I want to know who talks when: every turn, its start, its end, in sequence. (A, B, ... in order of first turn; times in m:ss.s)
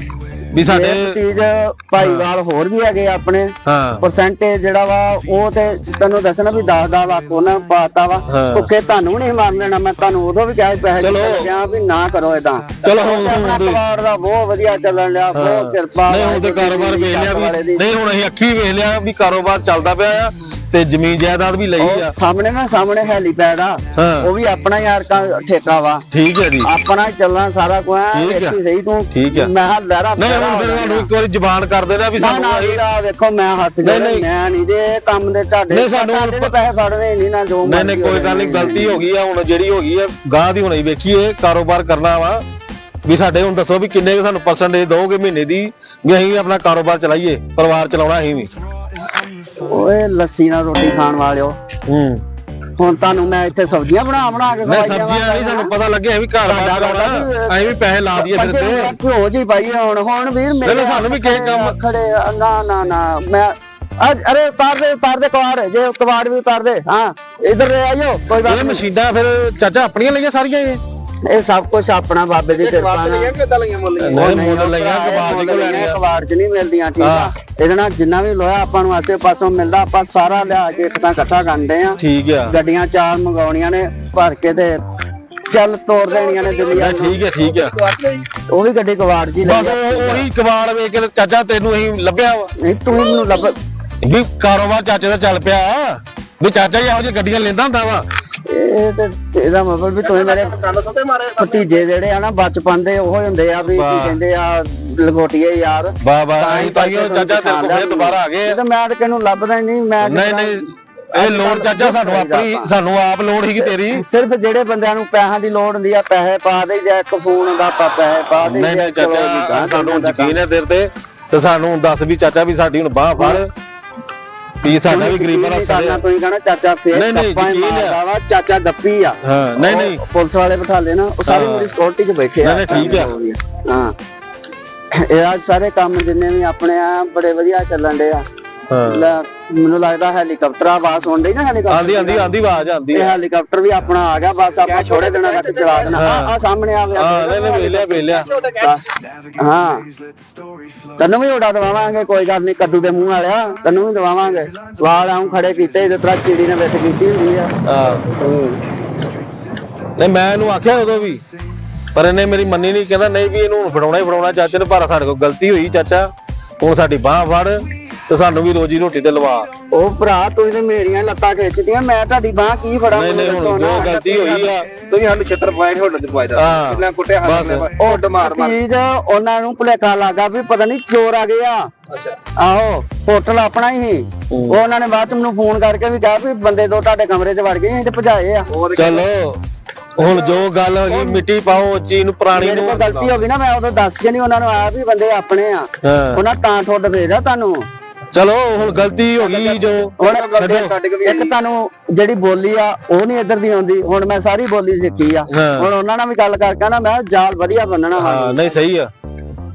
0:00.5-0:01.2 A
0:00.6-0:17.8 B
0:02.0-0:02.3 A
0:03.6-0:04.0 A
0:08.3-0:08.7 A
0:11.0-0:11.5 A
0:12.8-0:13.8 A
0:15.3-0:22.1 A
0:21.8-0:26.0 B
0:24.0-0:24.3 A
0:26.1-0:26.7 A
0:26.6-0:31.1 B
0:28.1-0:28.6 A
0:29.1-0:29.5 A
0:30.2-0:32.8 A
0:32.2-0:39.0 B
0:33.8-0:34.2 A
0:35.7-0:36.5 A
0:37.6-0:42.4 A
0:43.0-0:48.5 A
0:49.6-0:51.6 B
0:51.9-0:52.2 A
0:52.8-0:55.7 B
0:54.6-0:59.0 A
0:56.4-1:08.8 B
1:00.6-1:01.8 A
1:08.4-1:10.8 A
1:11.3-1:13.3 B
1:12.5-1:14.3 C
1:14.0-1:16.0 A
1:14.1-1:24.8 B
1:17.0-1:17.3 A
1:22.0-1:22.6 A
1:25.5-1:27.2 B
1:26.1-1:28.2 C
1:26.7-1:27.7 A
1:28.5-1:30.3 B
1:29.4-1:32.5 A
1:32.6-1:33.6 B
1:34.0-1:38.0 A
1:38.4-1:40.5 B
1:40.0-1:41.8 C
1:41.4-1:52.7 B
1:43.7-1:44.2 A
1:46.0-1:48.6 A
1:50.0-1:54.0 A
1:53.6-2:00.4 B
1:58.4-2:03.5 A
2:03.2-2:03.4 B
2:04.6-2:06.0 A
2:04.6-2:13.9 B
2:06.9-2:08.0 A
2:09.2-2:10.0 A
2:11.2-2:11.7 A
2:12.4-2:13.1 A
2:15.0-2:18.2 B
2:18.7-2:19.1 A
2:18.8-2:22.3 B
2:21.7-2:23.2 A
2:22.9-2:28.8 B
2:24.6-2:26.0 C
2:25.8-2:26.3 A
2:26.9-2:28.3 A
2:28.1-2:28.8 C
2:29.4-2:29.8 B
2:31.0-2:37.5 B
2:37.6-2:38.0 A
2:38.2-2:38.5 B
2:40.0-2:41.2 A
2:41.9-2:49.5 A
2:49.7-2:54.0 B
2:52.9-2:54.7 A
2:53.9-2:58.6 C
2:56.4-2:57.7 A
2:57.8-3:01.7 B
3:01.9-3:02.2 C
3:02.4-3:08.5 B
3:04.3-3:04.6 A
3:08.5-3:09.0 C
3:08.7-3:09.4 A
3:10.0-3:13.0 A
3:10.0-3:11.2 C
3:12.3-3:17.6 B
3:15.8-3:16.2 A
3:18.1-3:20.7 A
3:19.2-3:21.3 C
3:20.0-3:20.5 B
3:21.0-3:28.5 B
3:25.3-3:25.7 A
3:28.0-3:28.9 A